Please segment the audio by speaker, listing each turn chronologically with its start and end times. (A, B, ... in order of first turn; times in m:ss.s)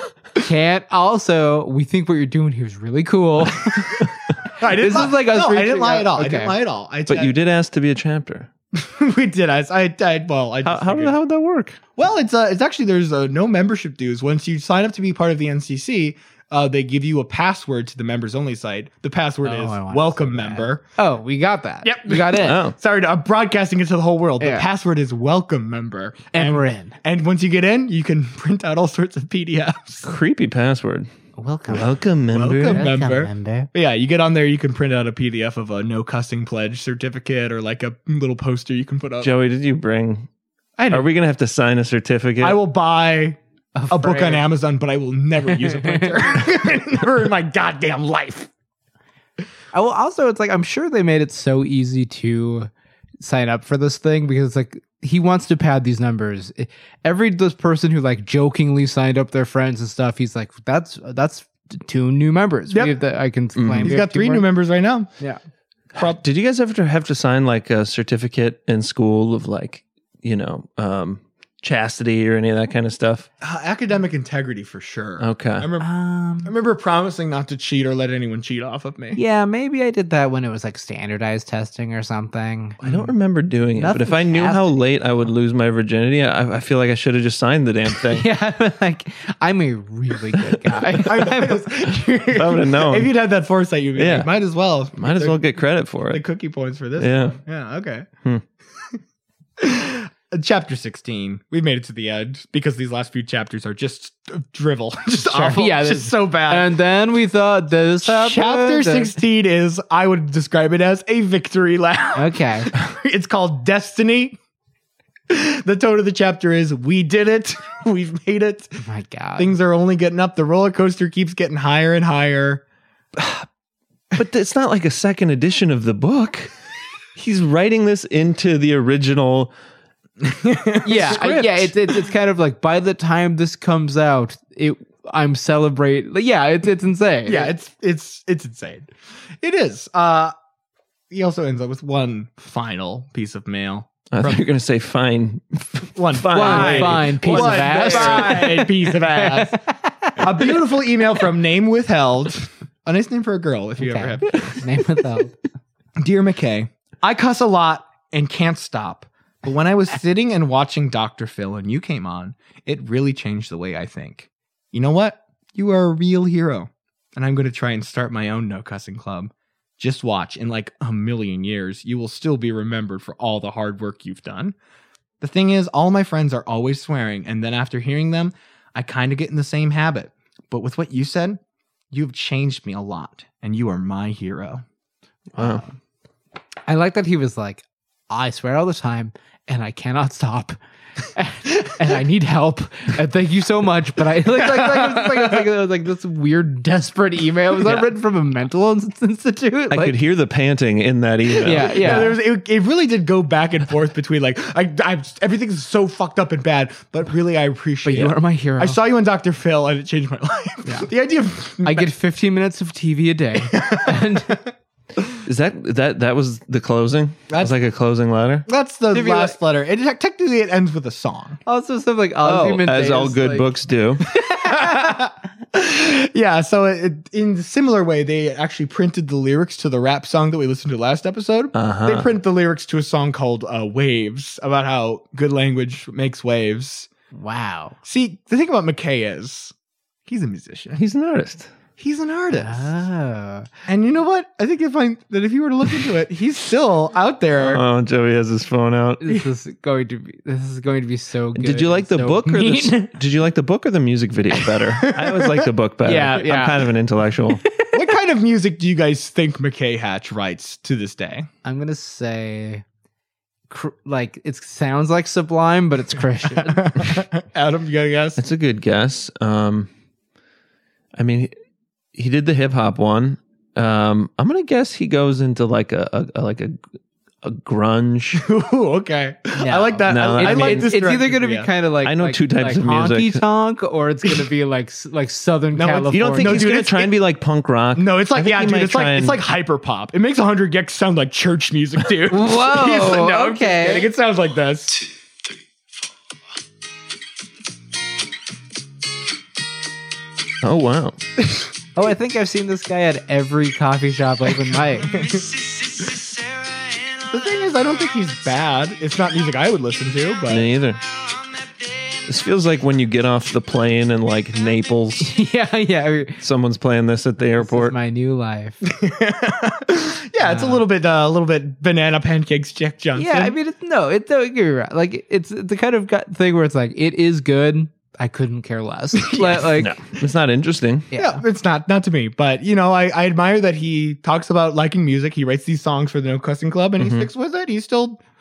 0:00.4-0:06.6 A
0:04.6-0:07.3 B
0:07.1-0:08.5 C
0:08.7-0:11.2 B
0:10.6-0:11.8 C
0:12.0-0:20.8 B
0:19.4-0:22.6 A
0:21.8-0:30.1 B
0:22.4-0:22.7 C
0:24.4-0:24.6 A
0:26.3-0:27.0 A
0:30.0-0:31.1 C
0:31.4-0:32.0 A
0:31.7-0:32.9 C
0:32.3-0:39.3 B
0:32.6-0:33.7 A
0:39.2-0:40.3 C
0:40.8-0:41.0 A
0:40.9-0:42.6 C
0:42.4-0:43.4 B
0:43.7-0:44.4 A
0:43.9-0:48.5 B
0:45.5-0:46.4 A
0:49.7-0:52.7 A
0:53.2-1:04.5 A
1:02.7-1:03.0 B
1:03.6-1:03.9 C
1:03.8-1:05.1 B
1:06.0-1:13.3 C
1:13.4-1:15.9 B
1:15.2-1:15.7 C
1:15.8-1:16.5 A
1:16.4-1:19.2 B
1:19.1-1:22.8 A
1:22.8-1:23.1 B
1:22.8-1:28.3 C
1:23.8-1:24.7 A
1:28.0-1:31.7 A
1:31.0-1:35.4 B
1:32.3-1:33.1 C
1:34.0-1:34.3 C
1:35.0-1:36.2 C
1:36.1-1:38.1 B
1:37.0-1:37.4 C
1:39.6-1:46.7 B
1:45.2-1:49.2 A
1:48.0-1:54.4 B
1:52.1-1:52.7 A
1:55.3-1:58.8 B
1:58.8-1:59.5 A
1:59.4-2:02.6 B
2:03.2-2:03.4 C
2:04.1-2:06.5 C
2:07.2-2:09.5 C
2:10.2-2:11.7 B
2:10.8-2:17.5 A
2:17.2-2:18.9 B
2:19.4-2:20.3 B
2:21.1-2:24.4 B
2:24.1-2:28.4 C
2:25.9-2:29.6 B
2:26.3-2:30.6 A
2:30.2-2:34.6 B
2:33.8-2:35.4 A
2:36.0-2:54.6 B
2:55.2-3:01.4 B
3:01.9-3:04.6 B
3:05.4-3:05.7 A
3:05.4-3:05.6 C
3:06.7-3:10.6 A
3:11.1-3:20.0 A
3:14.2-3:15.4 B
3:19.7-3:22.1 C
3:21.4-3:31.9 B
3:21.4-3:22.1 A
3:27.8-3:28.8 A
3:31.6-3:34.4 A
3:33.4-3:34.3 B
3:35.2-3:38.4 C
3:37.3-3:37.5 B
3:38.4-3:41.4 B
3:38.9-3:39.4 A
3:41.4-3:43.5 A
3:42.2-3:44.1 C
3:44.1-3:45.0 A
3:44.2-3:56.9 B
3:51.5-3:52.1 C
3:57.1-3:57.8 A
3:57.8-3:59.5 B
4:00.0-4:00.8 B
4:00.8-4:01.5 C
4:01.8-4:02.7 B
4:02.3-4:03.5 A
4:03.7-4:07.6 B
4:07.4-4:09.0 C
4:09.0-4:12.9 A
4:11.3-4:17.4 C
4:14.9-4:15.4 B
4:15.8-4:16.6 A
4:17.4-4:17.8 A
4:17.7-4:21.3 B
4:21.4-4:22.6 A
4:23.5-4:27.0 A
4:26.4-4:28.2 B
4:28.2-4:29.7 C
4:31.0-4:31.3 C
4:31.9-4:36.6 C
4:37.2-4:38.2 C
4:38.1-4:41.5 B
4:39.4-4:46.5 A
4:39.9-4:40.7 C
4:41.8-4:43.2 C
4:45.5-4:47.0 B
4:45.9-4:49.2 C
4:47.8-4:54.8 B
4:52.1-4:53.9 A
5:00.4-5:01.0 C
5:01.7-5:05.0 A
5:04.9-5:05.2 B
5:07.1-5:10.5 B
5:10.3-5:10.8 C
5:12.1-5:15.2 C
5:15.0-5:16.2 A
5:16.2-5:17.8 C
5:17.4-5:18.6 A
5:18.6-5:23.4 B
5:20.2-5:20.6 A
5:22.9-5:29.7 A
5:29.0-5:29.5 B
5:29.6-5:30.9 C
5:30.9-5:31.2 A
5:30.9-5:38.0 B
5:36.8-5:37.1 C